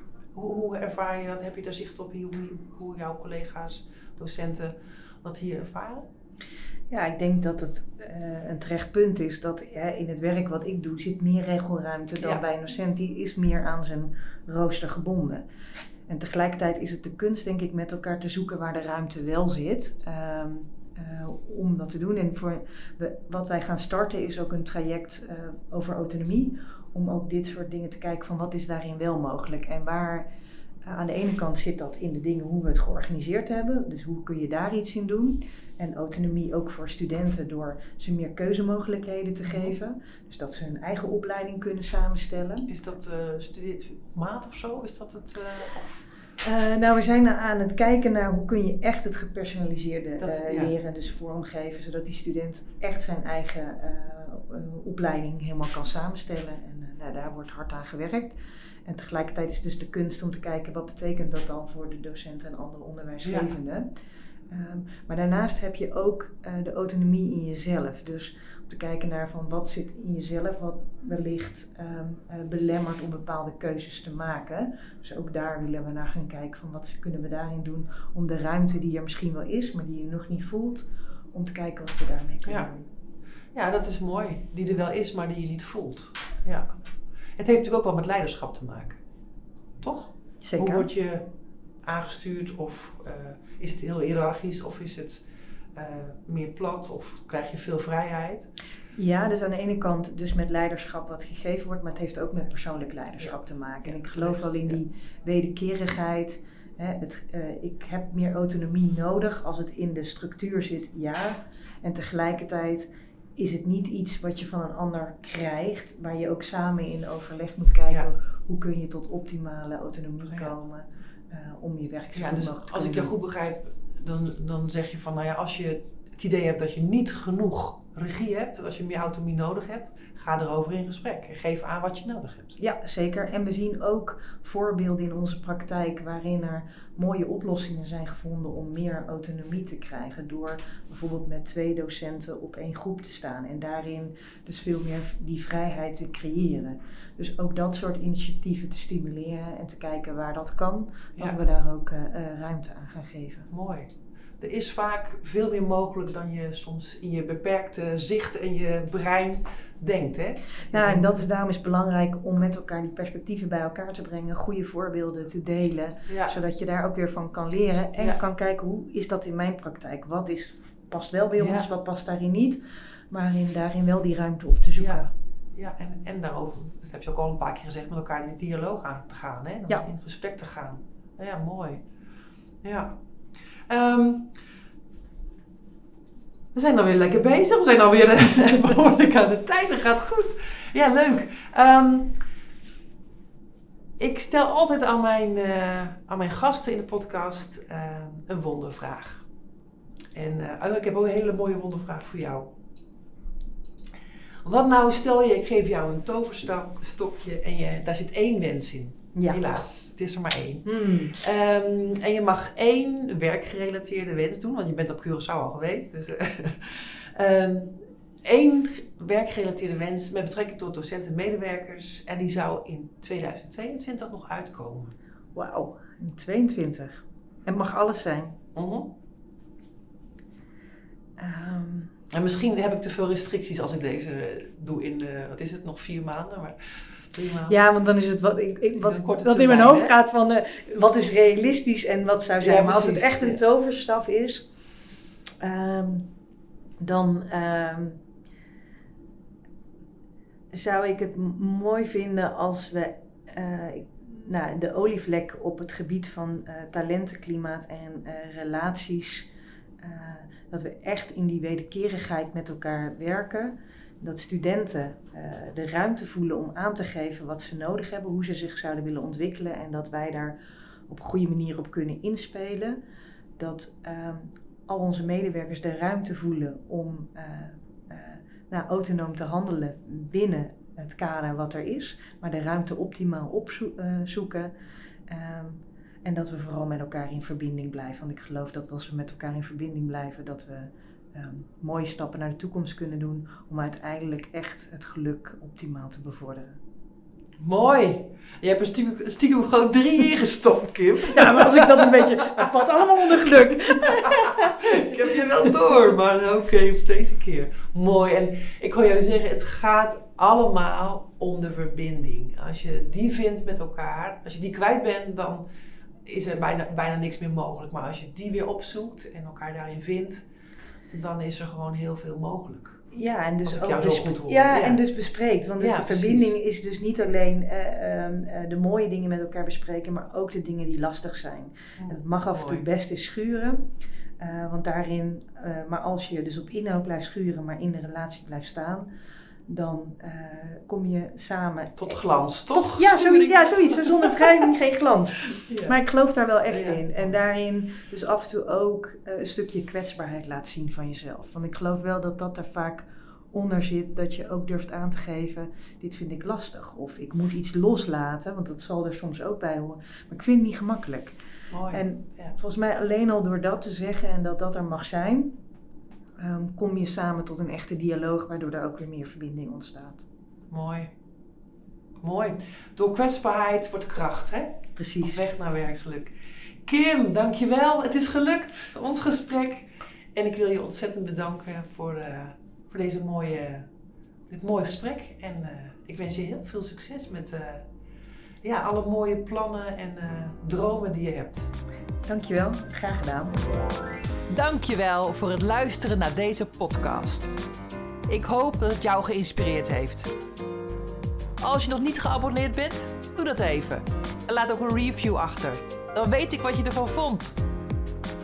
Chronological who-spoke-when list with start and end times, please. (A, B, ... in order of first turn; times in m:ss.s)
0:00.3-0:06.1 A
0:06.9-0:15.4 B
0:16.1-0:30.3 B
0:30.9-0:42.7 B
0:39.5-0:39.8 A
0:42.7-0:46.1 A
0:46.4-0:58.4 B
0:50.2-0:50.8 A
0:58.9-1:03.9 B
1:03.2-1:03.5 A
1:04.5-1:22.9 B
1:23.5-1:26.7 A
1:27.4-1:29.0 A
1:29.8-1:31.3 A
1:30.4-1:30.9 B
1:31.8-1:35.2 A
1:35.8-1:38.5 A
1:39.0-2:03.1 B
1:43.2-1:44.8 A
2:00.3-2:00.5 A
2:02.1-2:12.6 A
2:12.6-2:33.5 B
2:33.5-2:41.2 A
2:40.7-2:55.1 B
2:46.1-2:46.4 A
2:51.4-2:51.7 A
2:54.8-3:01.8 A
3:02.6-3:03.0 A
3:03.6-3:04.4 A
3:06.5-3:12.2 A
3:14.0-3:19.2 A
3:20.1-3:22.5 A
3:24.4-3:45.0 A
3:29.2-3:29.4 B
3:30.7-3:31.2 B
3:45.4-3:48.4 B
3:48.6-3:48.9 A
3:51.2-3:51.9 B
3:52.1-3:57.6 A
3:57.5-4:04.5 B
3:58.8-4:00.0 A
4:02.4-4:03.4 A
4:05.4-4:06.1 B
4:06.8-4:08.0 B
4:10.5-4:19.3 B
4:19.8-4:30.4 B
4:30.9-4:32.8 B
4:33.4-4:44.5 B
4:45.1-4:56.6 B
4:57.4-5:15.4 A
5:01.1-5:05.6 B
5:16.1-5:20.2 A
5:20.9-5:22.8 A
5:22.9-5:38.9 B
5:23.4-5:24.8 A
5:25.6-5:26.3 A
5:31.8-5:32.6 A
5:39.5-6:01.2 B
5:41.8-5:44.5 A
5:45.4-5:45.8 A
5:46.5-5:47.1 A
6:01.5-6:02.4 A
6:01.7-6:05.4 B
6:06.2-6:10.1 B
6:10.5-6:10.9 A
6:12.0-6:16.1 A
6:14.8-6:15.2 B
6:16.6-6:23.7 A
6:24.3-6:27.7 A
6:28.4-6:31.5 A
6:32.1-6:33.4 B
6:34.3-6:37.3 A
6:38.1-6:40.1 A
6:41.4-6:47.4 A